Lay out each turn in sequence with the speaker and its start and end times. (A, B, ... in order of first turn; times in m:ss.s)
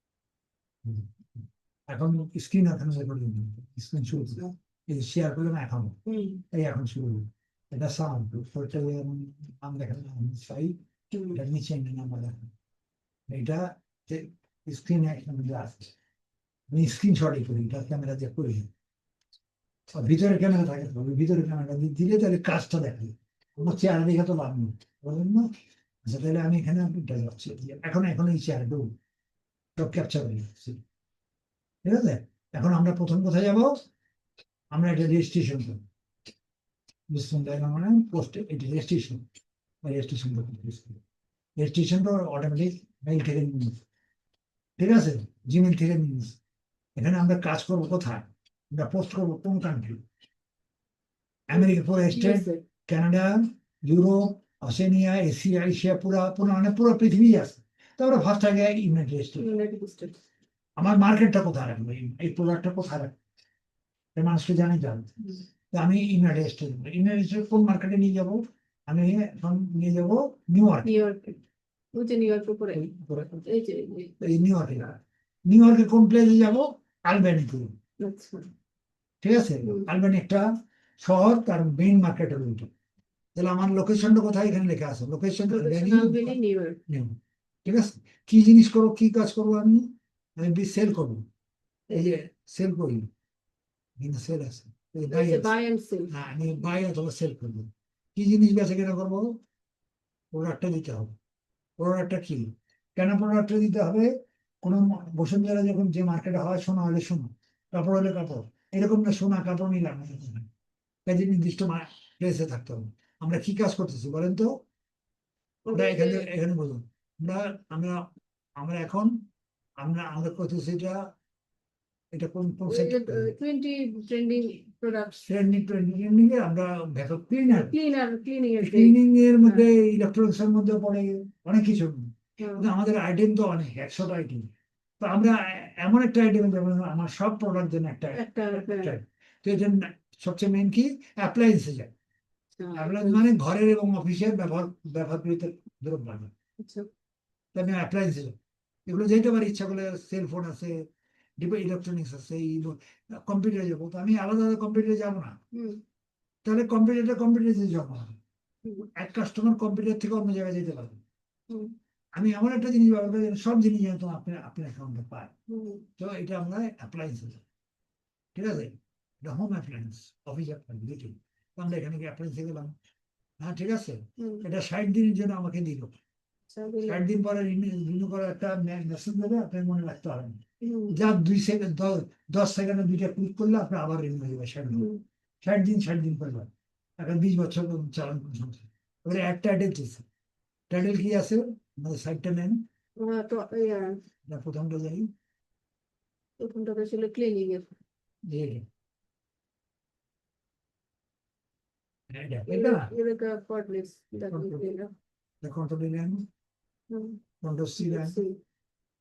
0:00.8-0:01.1 A
0:01.9-0:06.0 A
0:06.0-0:06.4 B
0:06.5-0:10.8 A
0:11.1-0:11.4 B
0:11.3-0:12.5 A
0:13.3-0:15.9 A
0:16.7-0:18.7 A
0:19.9-0:25.4 A
0:26.0-0:28.9 A
0:29.8-0:30.8 A
0:31.8-0:33.8 A
0:34.7-0:35.8 A
0:37.1-0:39.2 A
0:39.8-0:41.0 A
0:41.6-0:43.8 A
0:44.8-0:46.4 A
0:47.0-0:50.0 A
0:51.5-0:59.4 A
0:51.5-0:52.6 B
0:59.4-1:00.2 B
1:00.8-1:03.2 A
1:04.2-1:05.2 A
1:05.7-1:10.9 A
1:10.8-1:11.4 B
1:11.9-1:12.8 B
1:12.7-1:13.4 A
1:13.4-1:14.2 B
1:14.2-1:17.7 A
1:18.0-1:18.5 B
1:19.2-1:20.4 A
1:19.6-1:19.9 B
1:21.0-1:22.7 A
1:23.3-1:26.3 A
1:25.5-1:26.8 B
1:26.9-1:29.9 A
1:30.4-1:31.2 A
1:31.9-1:33.1 A
1:34.0-1:35.5 A
1:35.1-1:36.1 B
1:36.1-1:39.3 A
1:40.3-1:41.1 A
1:41.8-1:44.1 A
1:44.6-1:50.5 A
1:51.1-1:54.5 A
1:55.6-1:56.2 B
1:55.7-1:58.0 A
1:58.6-1:59.1 A
1:59.8-2:01.1 A
2:02.1-2:03.3 A
2:02.6-2:05.2 B
2:05.2-2:07.7 A
2:07.5-2:09.6 B
2:08.6-2:21.9 A
2:12.4-2:12.7 B
2:18.1-2:18.9 B
2:22.6-2:23.2 B
2:22.7-2:26.3 A
2:26.6-2:26.9 B
2:27.5-2:28.4 A
2:28.9-2:30.8 A
2:31.4-2:35.4 A
2:35.5-2:35.8 B
2:36.4-2:38.2 A
2:38.6-2:38.9 B
2:38.9-2:41.0 A
2:41.5-2:41.8 B
2:42.2-2:45.3 A
2:45.5-2:45.9 B
2:46.0-2:47.4 A
2:48.3-2:52.8 A
2:53.4-2:55.9 A
2:54.2-2:54.5 B
2:56.5-2:57.0 B
2:56.8-3:04.9 A
3:00.6-3:01.0 B
3:04.7-3:05.0 B
3:05.4-3:10.0 A
3:10.7-3:12.6 A
3:13.0-3:14.0 B
3:14.3-3:15.0 A
3:16.4-3:17.7 B
3:18.3-3:18.6 A
3:22.1-3:22.9 A
3:22.5-3:24.9 B
3:24.3-3:24.7 A
3:25.4-3:26.2 A
3:26.9-3:27.2 B
3:27.4-3:28.2 A
3:27.8-3:28.4 B